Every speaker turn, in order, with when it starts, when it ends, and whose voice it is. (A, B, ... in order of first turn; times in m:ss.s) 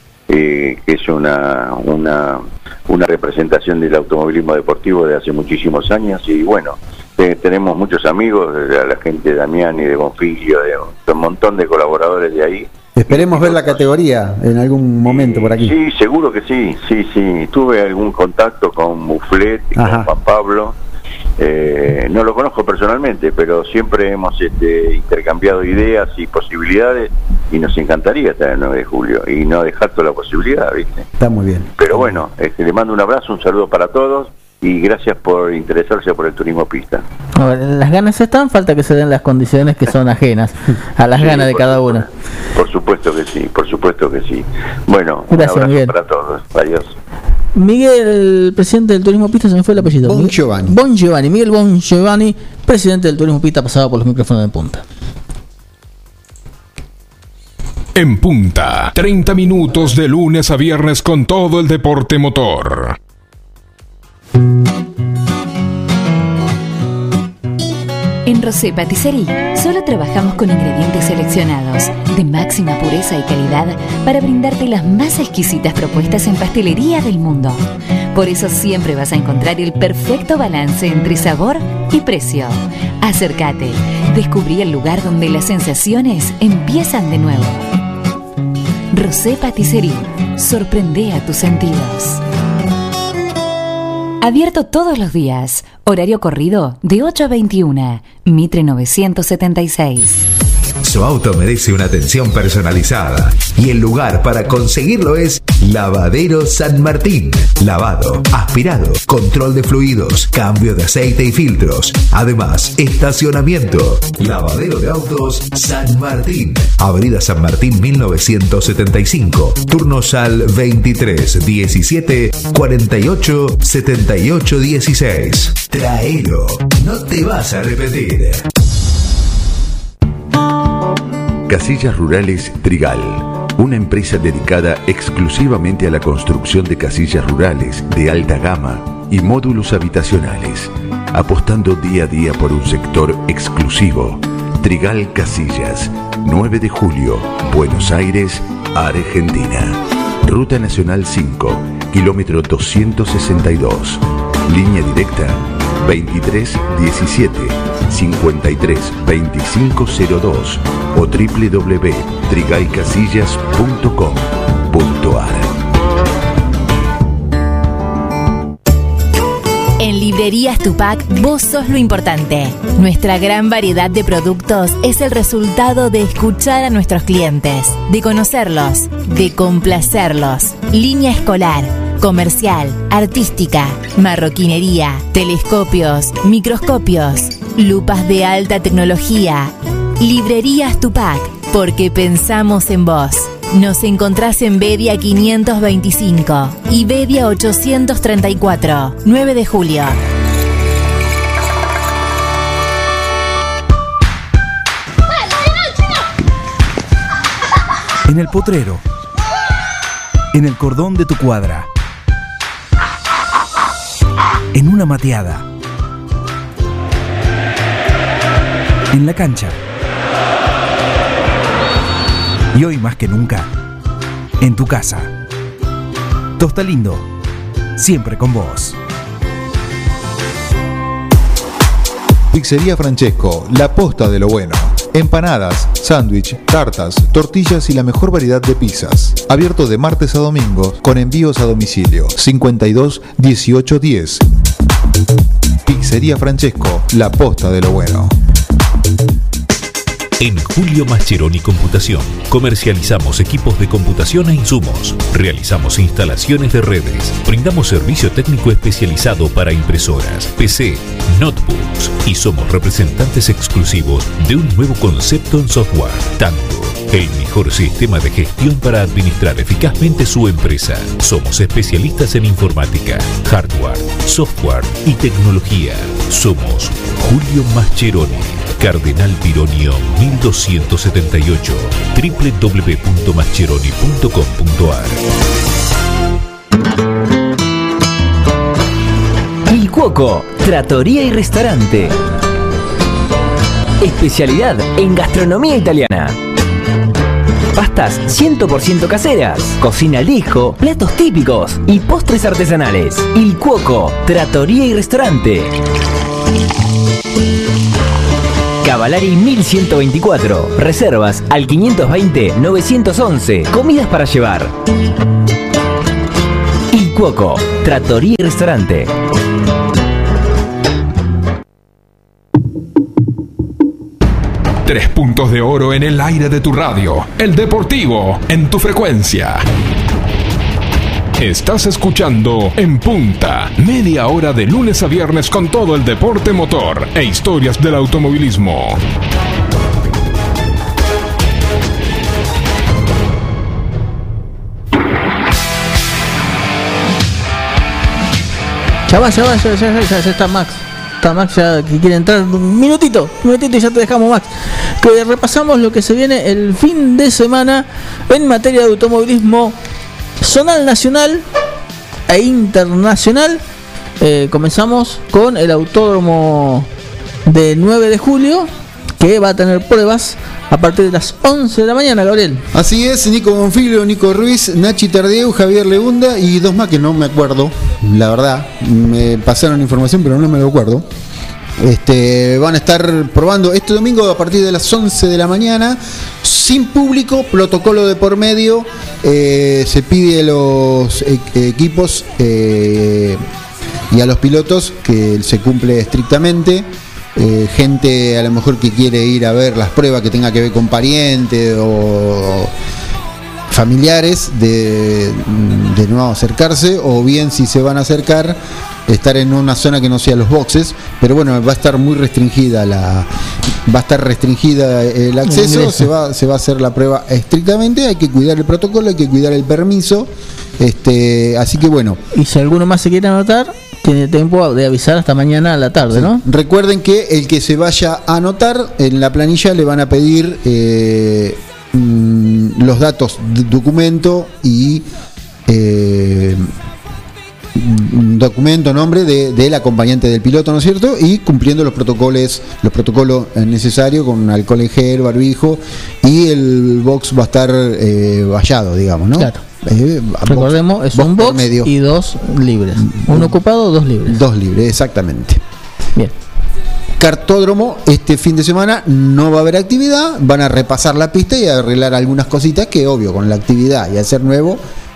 0:00.3-0:13.8 A
0:13.0-0:15.8 B
0:15.0-0:20.7 A
0:19.8-0:20.1 B
0:21.4-0:31.1 A
0:31.2-0:31.7 B
0:31.8-0:37.0 A
0:37.4-0:42.0 C
0:41.1-0:46.9 A
0:45.3-0:45.9 C
0:47.5-0:54.8 C
0:49.8-0:50.7 B
0:58.0-1:03.0 D
1:08.2-1:27.6 E
1:28.9-1:32.2 E
1:34.2-1:40.2 E
1:40.8-2:08.4 F
2:11.5-2:45.5 G
2:49.8-3:20.0 H
3:28.1-3:28.8 I
3:30.3-3:31.7 I
3:34.5-3:35.4 I
3:38.9-3:39.6 I
3:42.5-3:43.5 I
3:44.4-3:45.1 I
3:46.4-3:47.0 I
3:47.8-3:48.8 I
3:52.3-4:04.2 J
4:05.6-4:08.1 J
4:10.2-4:45.0 K
4:49.5-4:52.0 L
4:53.8-4:56.2 L
4:57.5-5:05.5 L
5:08.6-5:14.5 L
5:16.7-5:18.9 L
5:24.6-5:29.4 D
5:31.2-5:38.8 D
5:48.9-5:59.6 C
6:00.2-6:01.2 C
6:02.1-6:03.4 C
6:04.0-6:06.7 C
6:07.2-6:12.4 C
6:12.5-6:20.8 B
6:21.6-6:33.2 B
6:33.9-6:42.5 B
6:43.5-6:53.1 B
6:53.6-7:02.0 B
6:55.3-6:55.9 C
7:02.1-7:06.2 C
7:05.9-7:14.9 B
7:15.5-7:16.5 B
7:17.5-7:31.7 B
7:29.2-7:29.4 C
7:30.3-7:34.2 C
7:32.8-7:33.3 B
7:34.1-7:35.4 B
7:37.0-7:44.6 B